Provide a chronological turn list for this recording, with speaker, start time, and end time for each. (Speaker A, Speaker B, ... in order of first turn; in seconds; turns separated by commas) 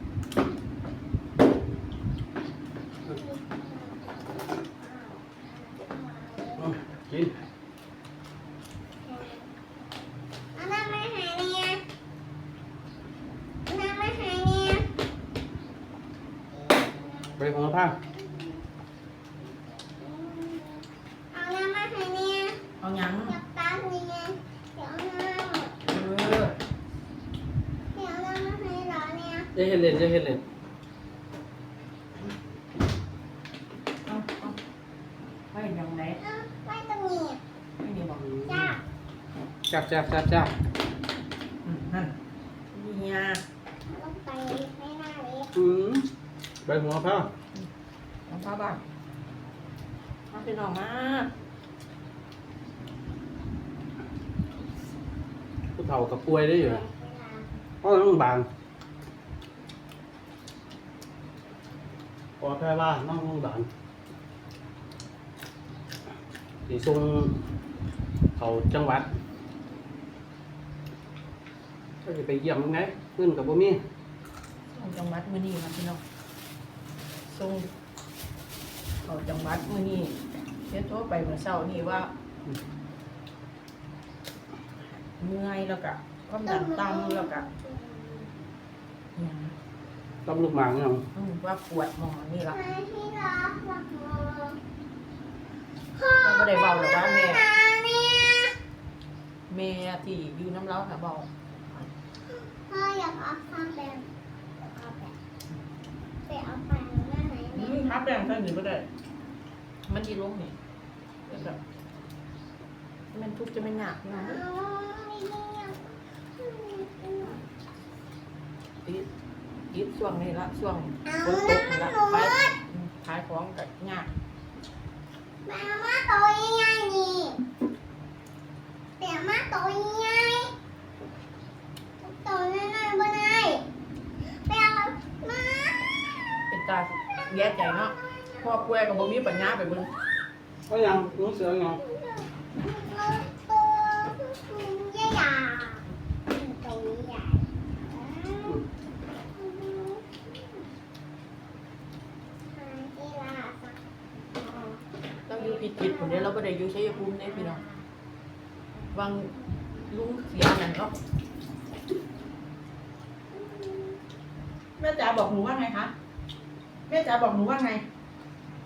Speaker A: 3.1-6.7, Speaker B: 6.6-7.4, Speaker A: 9.0-9.5, Speaker A: 10.6-11.8, Speaker A: 13.7-14.9, Speaker A: 16.5-18.6, Speaker B: 17.4-18.0, Speaker A: 19.4-22.6, Speaker C: 22.8-23.4, Speaker A: 23.2-25.7, Speaker C: 25.9-26.5, Speaker A: 27.9-29.5, Speaker B: 29.5-30.4, Speaker C: 34.0-34.6, Speaker C: 35.5-36.2, Speaker A: 36.2-37.4, Speaker C: 37.8-38.3, Speaker B: 38.2-38.7, Speaker A: 38.4-38.8, Speaker B: 39.7-40.5, Speaker C: 41.6-42.1, Speaker C: 42.7-43.4, Speaker A: 43.9-45.5, Speaker B: 45.5-46.1, Speaker B: 46.6-47.3, Speaker C: 48.3-48.8, Speaker C: 50.3-51.3, Speaker B: 55.8-56.8, Speaker A: 56.5-57.6, Speaker B: 57.8-58.5, Speaker B: 62.4-63.7, Speaker B: 66.7-67.3, Speaker B: 68.3-69.1, Speaker B: 72.0-73.8, Speaker C: 74.7-76.0, Speaker C: 77.3-77.7, Speaker C: 79.0-82.1, Speaker C: 85.0-87.4, Speaker A: 86.5-88.3, Speaker C: 89.2-89.5, Speaker B: 90.2-91.0, Speaker C: 91.1-92.6, Speaker A: 92.5-94.6, Speaker A: 95.9-98.5, Speaker C: 96.2-97.5, Speaker C: 99.5-101.3, Speaker A: 102.7-104.1, Speaker A: 104.6-105.1, Speaker A: 106.3-107.9, Speaker C: 107.5-108.8, Speaker C: 109.9-110.5, Speaker C: 111.3-111.6, Speaker C: 113.1-114.4, Speaker A: 114.1-117.4, Speaker C: 119.7-124.1, Speaker A: 121.0-122.5, Speaker A: 125.4-127.4, Speaker A: 129.0-130.5, Speaker A: 132.0-133.6, Speaker A: 134.3-135.8, Speaker C: 136.5-139.9, Speaker A: 137.4-138.7, Speaker B: 140.7-141.8, Speaker A: 141.8-148.6, Speaker A: 149.3-150.6, Speaker A: 152.5-153.8, Speaker A: 154.3-156.3, Speaker C: 155.3-157.6, Speaker A: 157.0-157.8, Speaker C: 158.9-159.3, Speaker C: 159.9-160.9, Speaker A: 163.3-164.0, Speaker C: 164.8-165.9, Speaker C: 166.9-167.8